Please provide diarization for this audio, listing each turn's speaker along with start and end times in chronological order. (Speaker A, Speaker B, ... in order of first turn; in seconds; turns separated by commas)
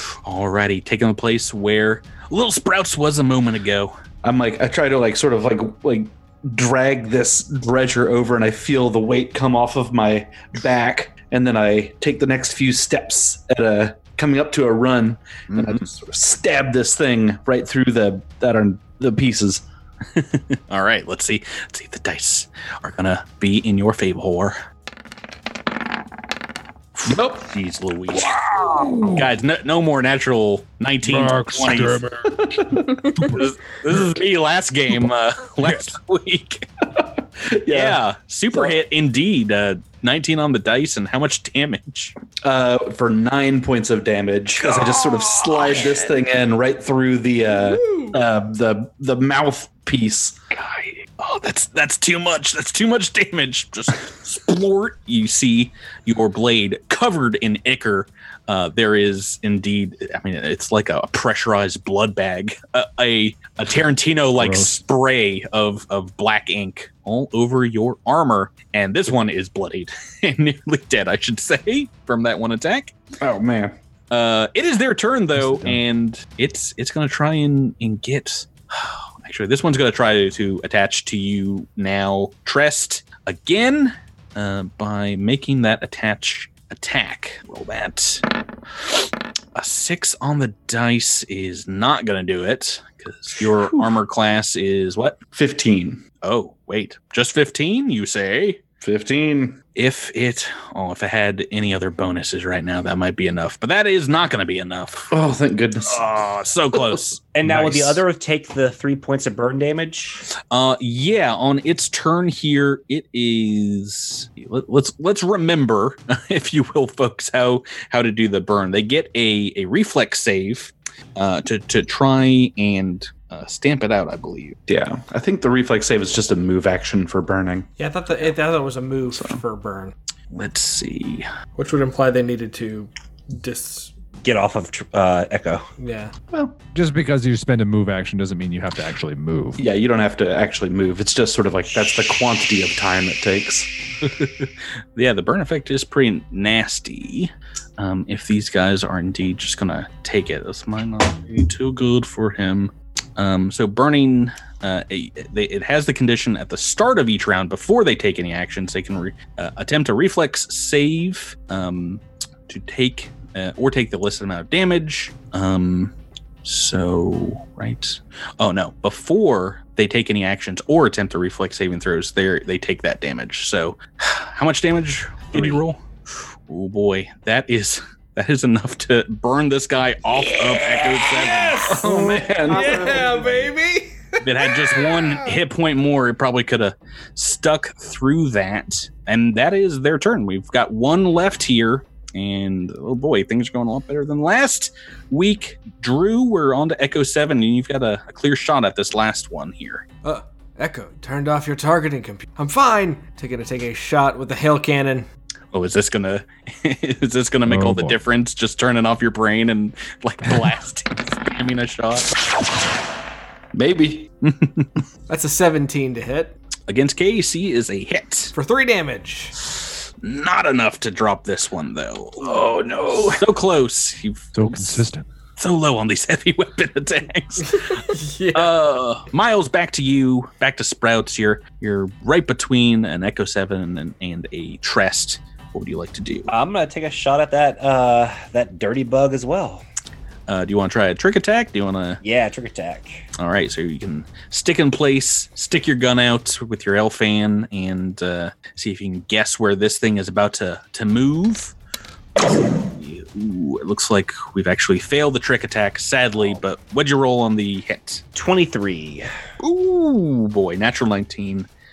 Speaker A: 0.2-3.9, Speaker B: 4.2-19.6, Speaker A: 15.5-16.0, Speaker A: 20.1-24.6, Speaker A: 27.0-32.1, Speaker B: 27.1-27.5, Speaker B: 28.3-29.2, Speaker C: 31.1-32.4, Speaker A: 33.0-36.7, Speaker B: 37.0-38.0, Speaker A: 37.7-42.1, Speaker B: 38.5-38.8, Speaker B: 42.4-50.4, Speaker A: 44.6-46.1, Speaker D: 47.6-48.2, Speaker A: 50.5-72.9, Speaker B: 64.4-64.7, Speaker B: 73.2-73.7, Speaker A: 74.1-88.2, Speaker C: 75.3-75.8, Speaker A: 89.5-95.2, Speaker B: 93.5-93.9, Speaker B: 95.3-96.0, Speaker A: 96.2-98.6, Speaker B: 98.8-99.6, Speaker A: 99.8-105.1, Speaker B: 105.1-106.0, Speaker A: 105.8-108.0, Speaker E: 107.3-110.2, Speaker A: 110.5-124.6, Speaker B: 124.7-127.7, Speaker D: 127.8-129.9, Speaker B: 129.1-129.4, Speaker A: 130.3-131.3, Speaker D: 131.6-133.9, Speaker E: 134.2-135.7, Speaker D: 135.8-136.1, Speaker B: 136.3-136.6, Speaker C: 136.7-139.6, Speaker B: 139.6-143.7, Speaker A: 144.0-165.9, Speaker A: 166.4-175.8, Speaker A: 176.5-183.2, Speaker D: 180.9-181.8, Speaker B: 181.5-183.3, Speaker D: 182.4-185.2, Speaker A: 184.2-199.8, Speaker D: 200.0-205.1, Speaker A: 205.5-212.2, Speaker C: 207.5-208.0, Speaker B: 213.5-214.1, Speaker A: 214.2-214.7, Speaker D: 215.1-216.3, Speaker A: 216.7-218.3, Speaker D: 218.3-219.3, Speaker A: 219.6-224.8, Speaker B: 222.2-223.2, Speaker C: 224.3-225.0, Speaker A: 225.4-236.3, Speaker D: 227.7-228.6, Speaker E: 236.3-239.6, Speaker A: 240.3-242.0, Speaker E: 242.0-243.0, Speaker A: 243.2-251.5, Speaker A: 252.2-258.0, Speaker E: 258.1-259.1, Speaker A: 259.4-261.5